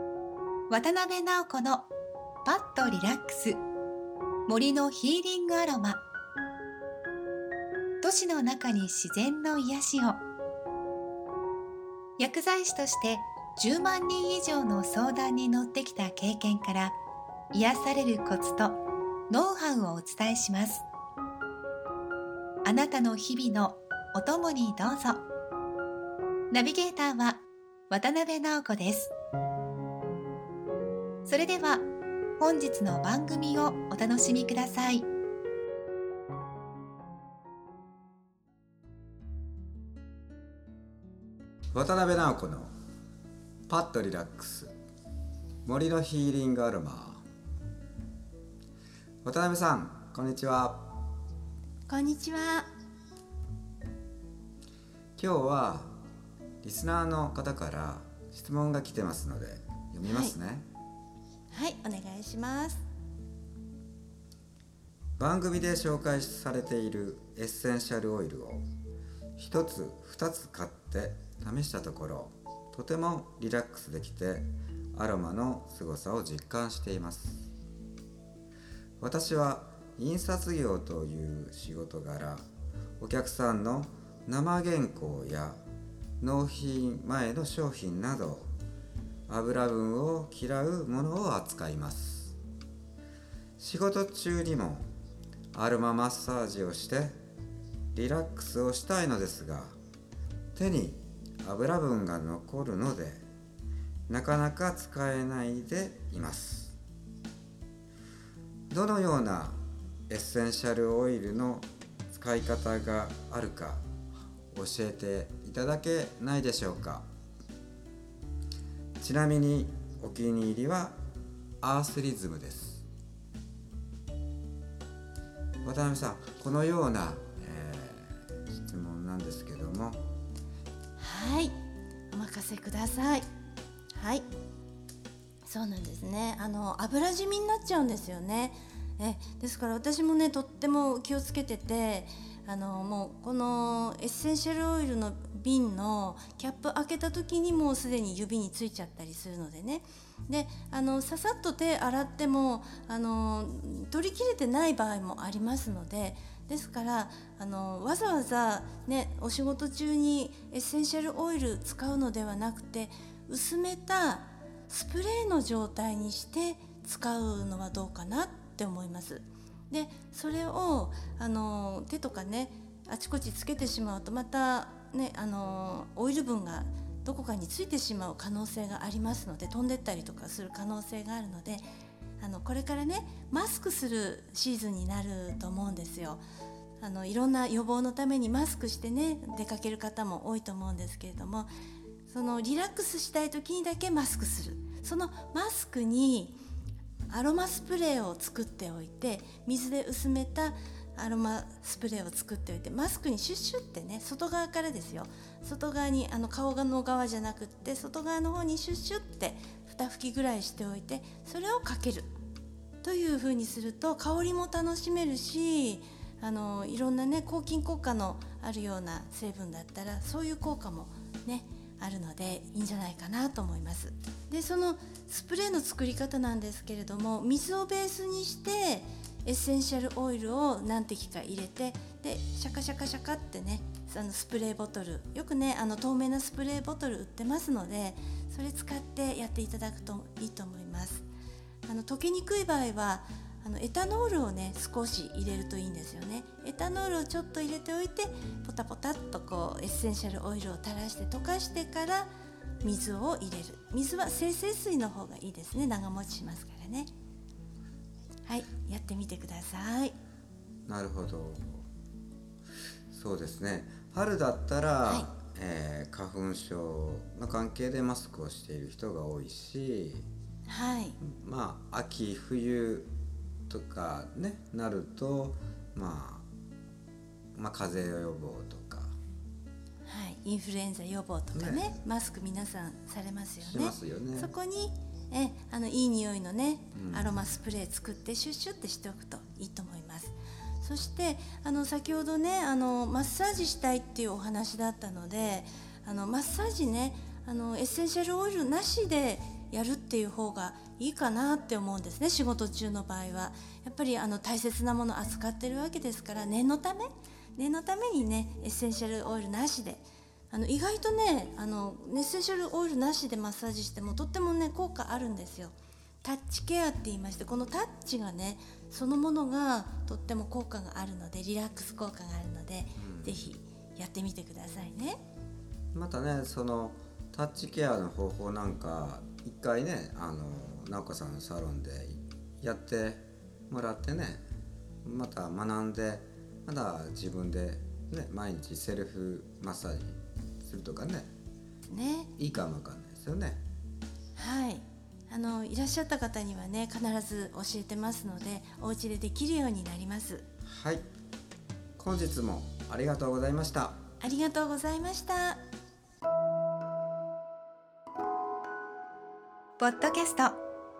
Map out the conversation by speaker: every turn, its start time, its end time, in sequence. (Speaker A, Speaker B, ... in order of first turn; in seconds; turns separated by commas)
Speaker A: 0.7-1.9, Speaker A: 2.4-3.6, Speaker A: 4.5-6.0, Speaker A: 8.0-10.2, Speaker A: 12.2-17.0, Speaker A: 17.5-20.9, Speaker A: 22.6-25.2, Speaker A: 26.5-29.1, Speaker A: 31.2-35.1, Speaker B: 41.7-42.7, Speaker B: 43.7-44.7, Speaker B: 45.6-47.2, Speaker B: 49.2-50.9, Speaker C: 51.9-52.7, Speaker B: 55.2-56.0, Speaker B: 56.6-60.6, Speaker C: 60.0-60.3, Speaker C: 61.5-62.8, Speaker B: 65.2-68.6, Speaker B: 69.4-77.5, Speaker B: 79.0-82.4, Speaker B: 83.0-85.6, Speaker B: 86.2-88.5, Speaker B: 89.3-92.3, Speaker B: 93.6-94.9, Speaker B: 95.5-97.2, Speaker B: 97.9-99.7, Speaker B: 100.5-103.2, Speaker B: 104.1-106.8, Speaker B: 108.7-113.8, Speaker B: 114.5-117.0, Speaker B: 119.0-121.0, Speaker B: 121.6-122.8, Speaker B: 125.6-130.0, Speaker C: 131.0-131.6, Speaker C: 132.1-133.3, Speaker C: 133.9-134.2, Speaker C: 135.4-181.6, Speaker C: 182.2-186.2, Speaker C: 186.8-191.5, Speaker C: 192.1-196.4, Speaker C: 197.1-212.1, Speaker C: 212.8-241.1, Speaker C: 241.6-252.1, Speaker C: 252.6-256.9, Speaker C: 258.2-259.9, Speaker B: 260.6-261.6, Speaker B: 262.9-270.1, Speaker C: 264.8-265.1, Speaker C: 270.5-271.0, Speaker B: 271.0-272.9, Speaker B: 273.5-276.3, Speaker B: 277.3-278.9, Speaker C: 279.9-325.0, Speaker B: 281.3-281.7, Speaker B: 283.4-284.3, Speaker B: 286.7-287.1, Speaker B: 322.8-323.3, Speaker B: 325.7-334.2, Speaker B: 334.8-341.1, Speaker C: 341.7-342.1, Speaker B: 342.2-343.4, Speaker C: 344.1-350.2, Speaker B: 350.4-350.8, Speaker B: 351.8-353.8, Speaker C: 354.0-355.4, Speaker A: 359.6-360.4